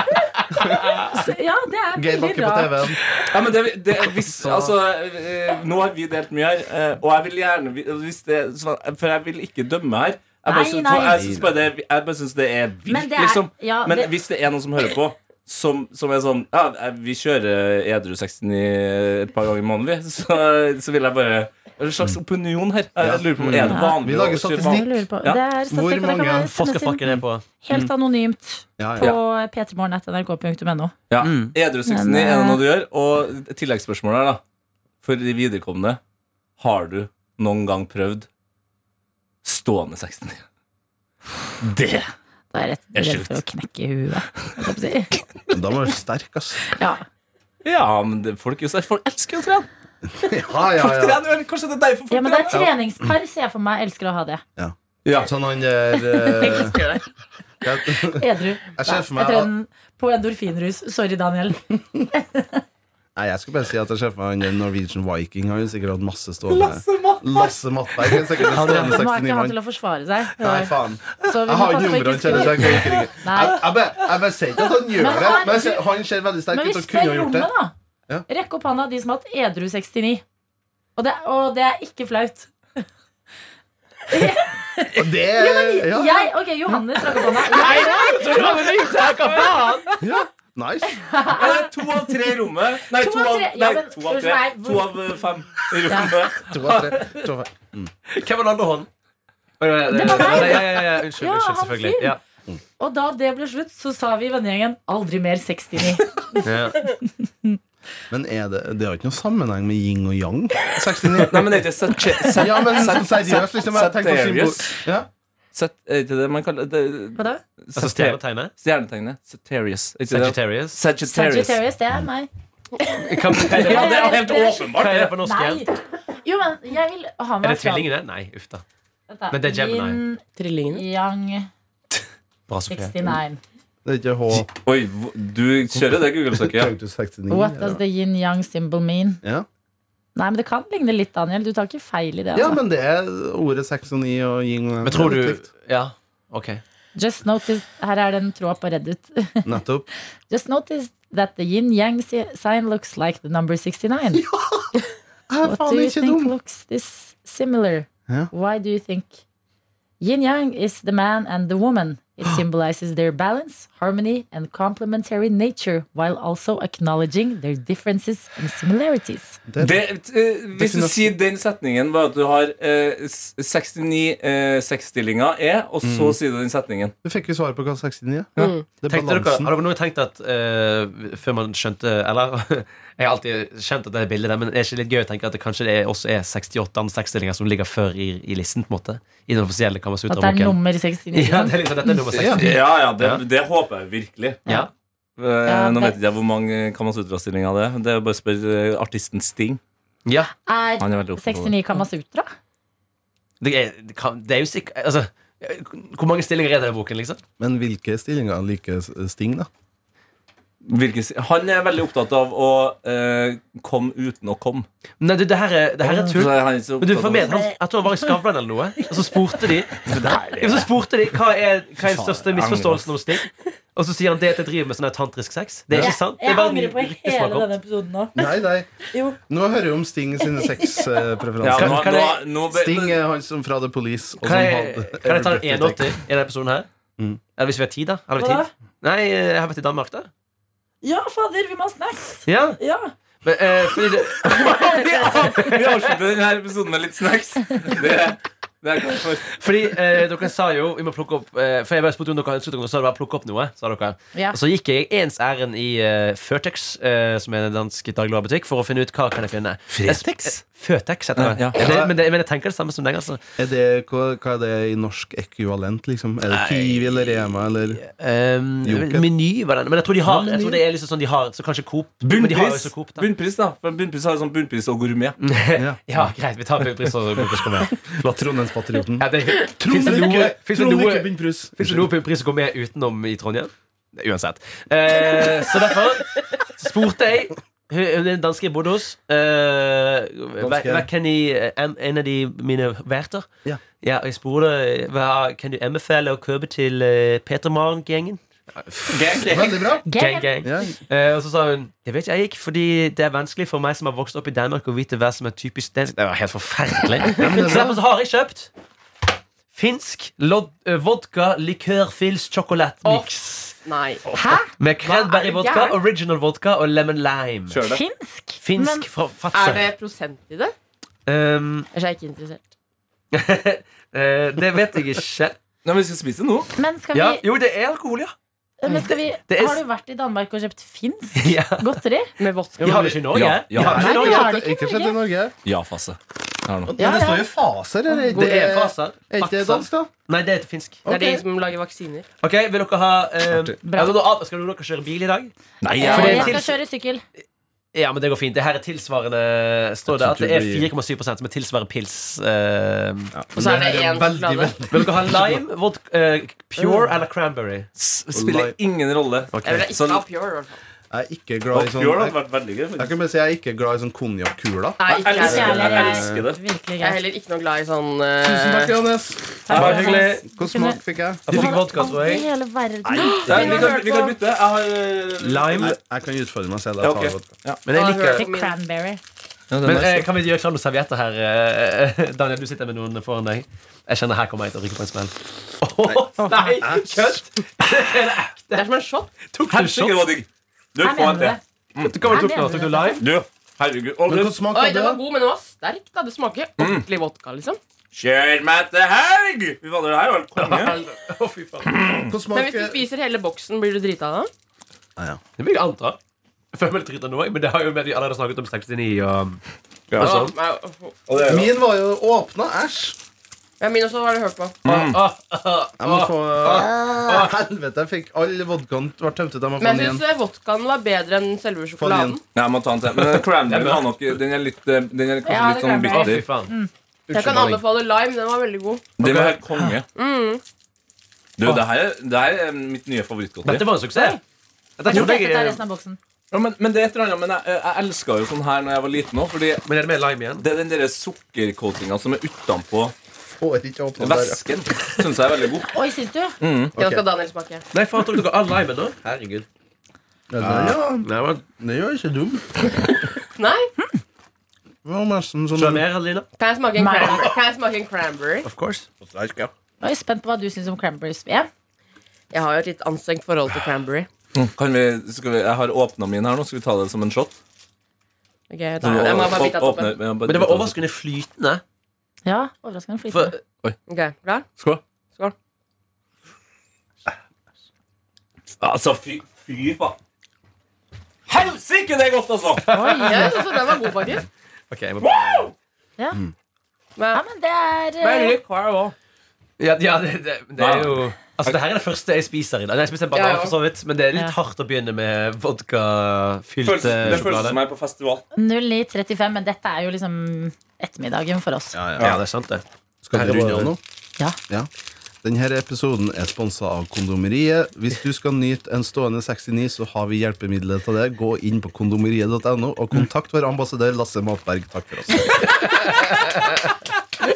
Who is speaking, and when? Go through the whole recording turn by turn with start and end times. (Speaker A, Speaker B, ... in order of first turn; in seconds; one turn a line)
Speaker A: 0.5-1.0
Speaker B: 1.1-3.0
Speaker A: 1.9-3.0
Speaker C: 3.2-25.4
Speaker D: 4.4-4.7
Speaker B: 10.5-11.3
Speaker A: 11.0-11.5
Speaker B: 12.9-14.1
Speaker A: 23.0-25.0
Speaker B: 23.6-30.9
Speaker A: 25.7-26.5
Speaker D: 26.5-27.4
Speaker A: 28.8-29.1
Speaker C: 31.1-34.4
Speaker D: 31.2-31.6
Speaker B: 31.9-32.6
Speaker C: 35.0-36.0
Speaker C: 36.6-38.3
Speaker C: 39.4-40.4
Speaker C: 41.6-42.1
Speaker B: 42.5-45.2
Speaker C: 42.9-43.4
Speaker A: 45.5-46.7
Speaker B: 46.7-47.0
Speaker C: 47.6-49.7
Speaker A: 50.0-51.2
Speaker C: 50.8-52.7
Speaker B: 52.1-54.4
Speaker A: 52.5-53.1
Speaker A: 54.6-56.8
Speaker B: 56.2-56.6
Speaker E: 56.4-57.0
Speaker A: 57.6-59.5
Speaker B: 58.0-62.6
Speaker A: 63.2-69.6
Speaker C: 66.5-68.4
Speaker D: 68.5-69.0
Speaker B: 68.7-73.7
Speaker A: 70.4-77.5
Speaker B: 74.9-75.8
Speaker B: 76.5-77.7
Speaker B: 78.3-80.2
Speaker B: 81.0-82.8
Speaker B: 84.1-88.9
Speaker A: 84.9-87.2
Speaker D: 87.5-90.0
Speaker A: 90.0-91.0
Speaker B: 90.9-91.9
Speaker C: 91.3-97.1
Speaker B: 93.0-95.2
Speaker B: 95.9-96.1
Speaker A: 96.5-97.9
Speaker D: 98.1-98.9
Speaker D: 99.6-102.2
Speaker B: 99.9-102.2
Speaker B: 102.8-107.6
Speaker D: 106.4-106.9
Speaker A: 108.1-111.6
Speaker C: 111.2-114.8
Speaker A: 112.3-115.1
Speaker C: 115.5-121.6
Speaker D: 117.8-118.5
Speaker D: 120.1-120.8
Speaker B: 121.1-122.3
Speaker D: 123.0-124.2
Speaker C: 123.3-125.2
Speaker B: 123.4-124.7
Speaker D: 124.7-125.6
Speaker B: 125.2-127.9
Speaker D: 127.4-128.6
Speaker B: 129.1-131.5
Speaker D: 129.3-130.0
Speaker E: 130.4-130.8
Speaker D: 132.5-133.1
Speaker B: 132.7-133.4
Speaker A: 133.8-134.5
Speaker C: 134.3-136.7
Speaker A: 135.7-137.8
Speaker B: 137.3-139.2
Speaker B: 140.2-142.6
Speaker A: 142.3-145.5
Speaker D: 144.8-146.6
Speaker B: 147.0-149.6
Speaker A: 149.4-149.9
Speaker B: 150.3-154.2
Speaker A: 154.1-154.7
Speaker A: 155.3-156.3
Speaker B: 155.4-159.2
Speaker B: 160.0-169.4
Speaker A: 169.5-169.8
Speaker C: 169.6-176.9
Speaker A: 170.5-171.1
Speaker A: 175.8-176.2
Speaker A: 177.0-179.5
Speaker E: 178.4-178.7
Speaker D: 178.9-190.6
Speaker B: 190.1-192.0
Speaker D: 191.1-193.2
Speaker A: 192.1-192.6
Speaker C: 192.1-194.4
Speaker C: 195.2-199.6
Speaker B: 195.5-196.0
Speaker D: 200.1-200.3
Speaker B: 200.5-202.3
Speaker C: 200.8-201.5
Speaker D: 203.4-207.2
Speaker A: 207.4-209.5
Speaker C: 210.7-214.7
Speaker D: 215.0-227.5
Speaker C: 215.9-217.3
Speaker C: 219.9-220.7
Speaker C: 221.8-222.9
Speaker A: 225.7-225.9
Speaker B: 225.8-228.3
Speaker A: 228.2-228.7
Speaker B: 228.8-229.2
Speaker A: 229.3-236.0
Speaker B: 230.2-230.8
Speaker C: 231.4-233.0
Speaker D: 231.5-232.2
Speaker D: 234.2-236.7
Speaker D: 237.4-240.1
Speaker B: 238.2-238.5
Speaker B: 240.8-242.9
Speaker D: 242.3-242.6
Speaker D: 243.2-244.5
Speaker C: 244.2-249.4
Speaker D: 249.4-263.2
Speaker C: 259.7-260.4
Speaker C: 261.2-261.6
Speaker A: 261.5-262.0
Speaker A: 263.4-267.8
Speaker D: 266.3-267.2
Speaker D: 267.8-273.1
Speaker A: 268.6-269.1
Speaker A: 270.1-270.6
Speaker C: 272.0-275.2
Speaker D: 275.2-277.8
Speaker A: 275.6-276.0
Speaker A: 277.6-281.9
Speaker D: 279.0-293.3
Speaker A: 290.4-290.9
Speaker D: 293.8-308.5
Speaker C: 298.9-299.5
Speaker A: 299.2-299.9
Speaker B: 299.9-300.5
Speaker A: 300.4-300.8
Speaker A: 307.2-307.8
Speaker D: 309.5-313.6
Speaker E: 312.8-314.0
Speaker B: 314.1-314.5
Speaker D: 314.6-317.6
Speaker E: 314.8-315.8
Speaker C: 317.5-317.8
Speaker B: 317.6-318.9
Speaker D: 318.4-319.7
Speaker E: 319.3-320.5
Speaker D: 321.1-321.7
Speaker E: 321.7-322.5
Speaker D: 323.1-325.4
Speaker C: 325.6-326.5
Speaker B: 326.6-327.2
Speaker D: 326.9-328.1
Speaker B: 328.6-332.1
Speaker D: 328.7-329.6
Speaker D: 331.2-331.8
Speaker E: 332.2-333.0
Speaker D: 332.6-334.3
Speaker A: 332.6-335.3
Speaker C: 333.1-333.9
Speaker B: 333.7-335.0
Speaker C: 335.4-336.7
Speaker A: 336.7-339.9
Speaker B: 336.8-337.3
Speaker E: 338.0-338.4
Speaker D: 338.1-340.8
Speaker A: 340.9-341.2
Speaker E: 340.9-342.1
Speaker D: 342.2-346.6
Speaker A: 343.3-343.6
Speaker B: 343.6-344.0
Speaker C: 345.6-346.4
Speaker B: 345.8-347.0
Speaker D: 347.7-353.1
Speaker A: 349.9-350.7
Speaker A: 353.1-355.4
Speaker E: 353.4-354.6
Speaker D: 354.7-357.7
Speaker E: 356.6-356.9
Speaker C: 357.8-360.0
Speaker A: 358.1-358.6
Speaker D: 359.3-359.7
Speaker E: 359.4-360.6
Speaker A: 360.9-362.2
Speaker C: 361.5-362.9
Speaker A: 362.8-366.3
Speaker E: 364.8-366.1
Speaker C: 364.9-366.4
Speaker B: 365.0-367.0
Speaker E: 366.8-368.8
Speaker A: 368.2-371.6
Speaker B: 369.5-373.9
Speaker C: 369.5-370.1
Speaker D: 369.5-370.2
Speaker D: 371.3-372.3
Speaker C: 372.9-375.8
Speaker A: 373.0-373.7
Speaker E: 373.0-373.6
Speaker D: 375.2-375.7
Speaker A: 375.6-377.2
Speaker C: 376.8-377.6
Speaker D: 377.7-378.3
Speaker E: 377.7-378.6
Speaker B: 378.1-379.0
Speaker C: 379.5-380.1
Speaker D: 379.7-388.7
Speaker A: 385.8-387.2
Speaker E: 388.5-389.1
Speaker D: 389.2-390.1
Speaker C: 389.5-392.0
Speaker B: 390.8-391.4
Speaker D: 391.8-393.1
Speaker B: 392.1-393.1
Speaker C: 393.0-394.4
Speaker A: 394.1-395.0
Speaker E: 394.5-397.6
Speaker C: 396.6-396.8
Speaker C: 397.9-400.8
Speaker D: 400.4-401.8
Speaker C: 401.7-402.1
Speaker A: 402.1-402.8
Speaker E: 402.3-404.3
Speaker D: 405.4-406.0
Speaker D: 406.5-409.4
Speaker C: 409.9-410.3
Speaker D: 410.0-410.4
Speaker E: 410.0-410.9
Speaker C: 411.1-411.5
Speaker A: 411.2-413.0
Speaker E: 413.6-414.6
Speaker C: 414.6-415.0
Speaker D: 414.6-417.3
Speaker A: 415.8-420.0
Speaker E: 419.6-422.2
Speaker A: 421.8-422.2
Speaker C: 422.3-426.3
Speaker D: 422.9-423.9
Speaker B: 425.3-426.7
Speaker D: 425.9-426.5
Speaker E: 427.1-428.9
Speaker A: 427.1-427.6
Speaker D: 427.1-427.6
Speaker C: 429.0-429.9
Speaker D: 429.0-429.8
Speaker E: 429.9-430.4
Speaker C: 431.4-433.7
Speaker D: 433.4-434.2
Speaker B: 433.9-434.2
Speaker D: 434.8-435.6
Speaker B: 434.9-436.0
Speaker C: 436.3-439.7
Speaker D: 439.7-440.4
Speaker C: 440.4-442.9
Speaker A: 443.4-444.4
Speaker C: 444.0-445.7
Speaker B: 445.7-446.4
Speaker C: 446.4-446.7
Speaker E: 446.8-447.6
Speaker A: 446.8-447.0
Speaker D: 447.7-449.5
Speaker A: 450.3-452.7
Speaker D: 450.4-451.4
Speaker E: 453.4-453.7
Speaker A: 454.9-455.8
Speaker D: 455.5-456.3
Speaker E: 456.4-458.5
Speaker B: 456.8-457.3
Speaker D: 458.4-458.9
Speaker C: 459.1-459.5
Speaker B: 459.8-461.5
Speaker E: 462.3-464.1
Speaker C: 464.3-467.4
Speaker E: 468.5-470.0
Speaker C: 468.8-470.8
Speaker D: 470.2-471.6
Speaker B: 472.2-473.4
Speaker D: 473.1-473.4
Speaker E: 473.9-474.5
Speaker C: 478.6-480.0
Speaker C: 481.3-482.7
Speaker D: 482.6-483.4
Speaker B: 482.7-483.4
Speaker E: 483.0-484.3
Speaker D: 484.7-485.5
Speaker C: 485.0-485.4
Speaker E: 487.0-487.2
Speaker B: 487.1-488.4
Speaker E: 488.0-488.9
Speaker D: 489.6-497.6
Speaker C: 490.6-491.6
Speaker E: 493.1-493.6
Speaker C: 496.6-498.3
Speaker B: 498.4-501.8
Speaker A: 501.7-502.1
Speaker D: 502.0-503.8
Speaker A: 503.0-503.8
Speaker A: 505.2-515.4